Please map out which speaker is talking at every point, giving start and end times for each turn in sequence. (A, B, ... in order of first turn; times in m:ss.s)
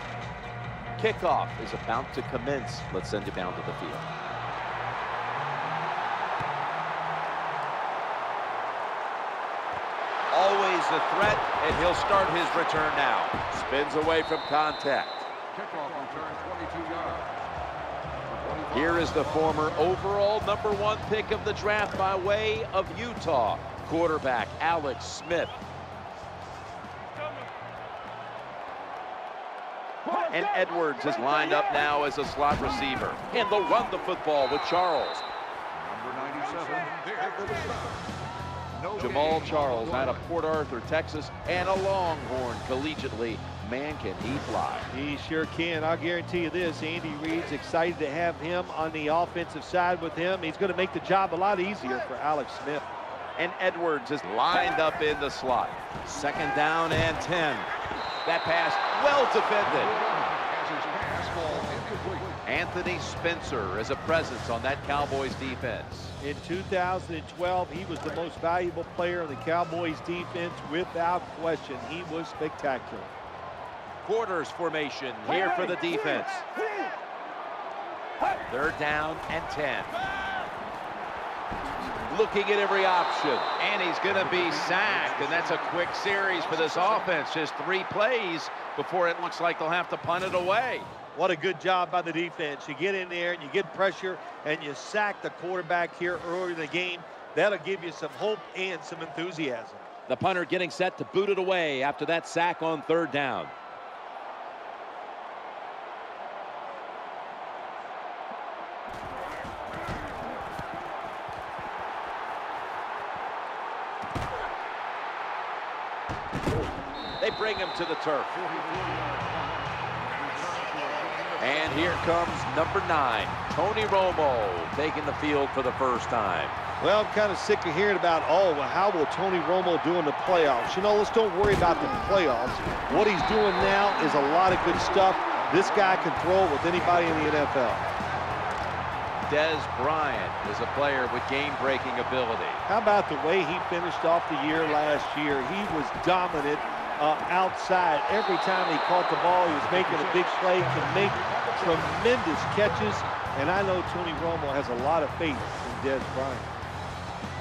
0:01.0-0:04.0 A
0:10.3-0:15.2 A
0:15.5-0:17.3 B
0:18.2-0:19.7 B
0:18.7-0:25.5 A
0:30.2-0:35.2 A
0:35.7-0:38.0 B
0:38.7-0:40.2 B
0:39.0-0:44.9 A
0:44.9-0:52.8 C
0:53.4-0:57.7 A
0:58.2-1:00.0 A
0:59.7-1:02.4 B
1:02.4-1:06.1 A
1:06.2-1:13.1 C
1:14.0-1:16.4 A
1:18.4-1:20.0 A
1:22.0-1:30.9 A
1:24.5-1:25.1 B
1:31.1-1:39.9 C
1:40.1-1:43.5 A
1:57.2-1:58.4 A
1:58.4-2:02.0 B
2:01.4-2:06.6 A
2:06.8-2:17.8 C
2:19.3-2:22.6 A
2:22.7-2:36.5 C
2:29.7-2:31.8 B